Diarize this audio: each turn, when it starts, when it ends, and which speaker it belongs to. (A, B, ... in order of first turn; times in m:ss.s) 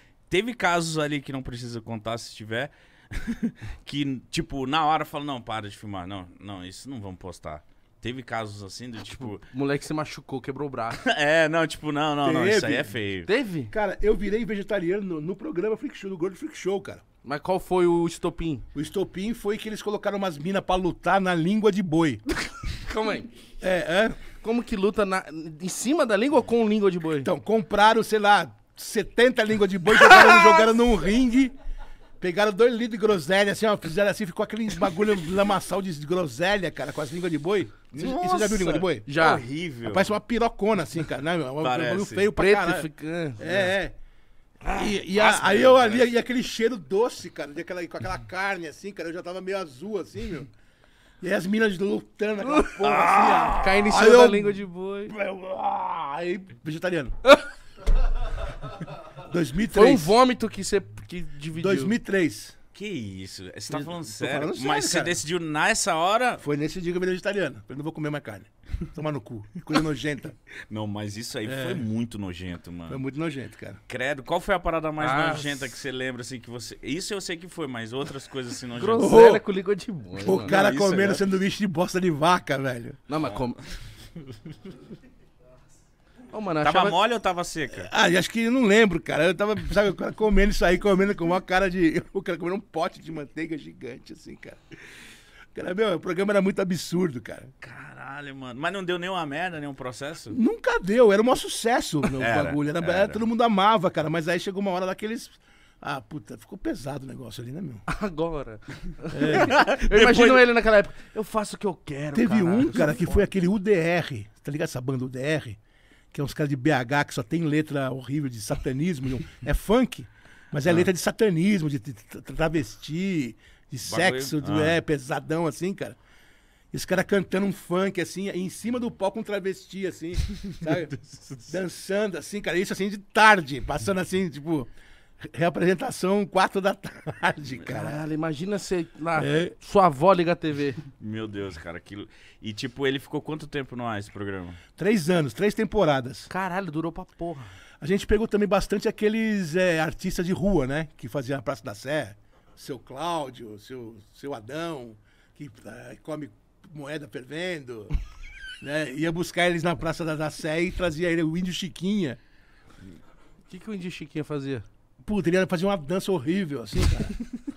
0:00.3-0:09.4 A
0:09.1-0:11.0 B
0:11.0-0:13.3 A
0:12.2-0:13.0 C
0:13.3-0:13.7 B
0:13.7-0:17.0 C
0:17.2-0:18.6 B
0:18.7-0:22.2 C
0:22.7-0:23.3 B
0:23.6-0:24.2 C
0:24.4-0:27.3 B
0:27.2-0:31.5 C
0:30.0-0:30.6 B
0:32.2-0:39.1 C
0:37.9-0:40.1 A
0:39.0-0:39.4 B
0:39.8-0:44.0 C
0:41.6-0:42.3 A
0:42.4-0:43.6 B
0:44.7-0:50.5 C
0:45.0-0:46.0 A
0:51.2-0:57.2 C
0:52.4-0:52.8 B
0:52.8-0:53.7 A
0:53.5-0:55.1 B
0:59.2-1:00.2 C
0:59.7-1:02.0 B
1:01.6-1:02.6 C
1:02.7-1:06.4 A
1:03.7-1:05.2 C
1:06.4-1:10.4 C
1:10.7-1:13.0 A
1:11.5-1:11.9 C
1:12.9-1:13.8 C
1:13.9-1:19.2 A
1:15.0-1:15.7 B
1:18.8-1:20.5 B
1:19.0-1:19.4 C
1:20.2-1:23.0 C
1:20.5-1:21.4 A
1:23.1-1:23.6 B
1:26.3-1:27.0 B
1:26.6-1:27.9 A
1:27.7-1:34.6 C
1:35.5-1:37.5 C
1:37.6-1:40.4 A
1:40.3-1:47.9 C
1:42.1-1:42.6 B
1:42.2-1:43.2 A
1:47.9-1:53.3 B
1:49.1-1:49.7 C
1:49.3-1:50.4 A
1:52.1-1:55.6 C
1:56.1-2:06.0 C
2:03.8-2:04.8 A
2:06.7-2:14.7 C
2:15.2-2:18.0 C
2:17.7-2:20.8 B
2:19.2-2:19.6 C
2:21.0-2:24.6 A
2:24.8-2:26.3 C
2:26.3-2:27.5 B
2:27.8-2:37.9 C
2:38.6-2:42.2 C
2:43.5-2:44.6 B
2:45.0-2:47.1 C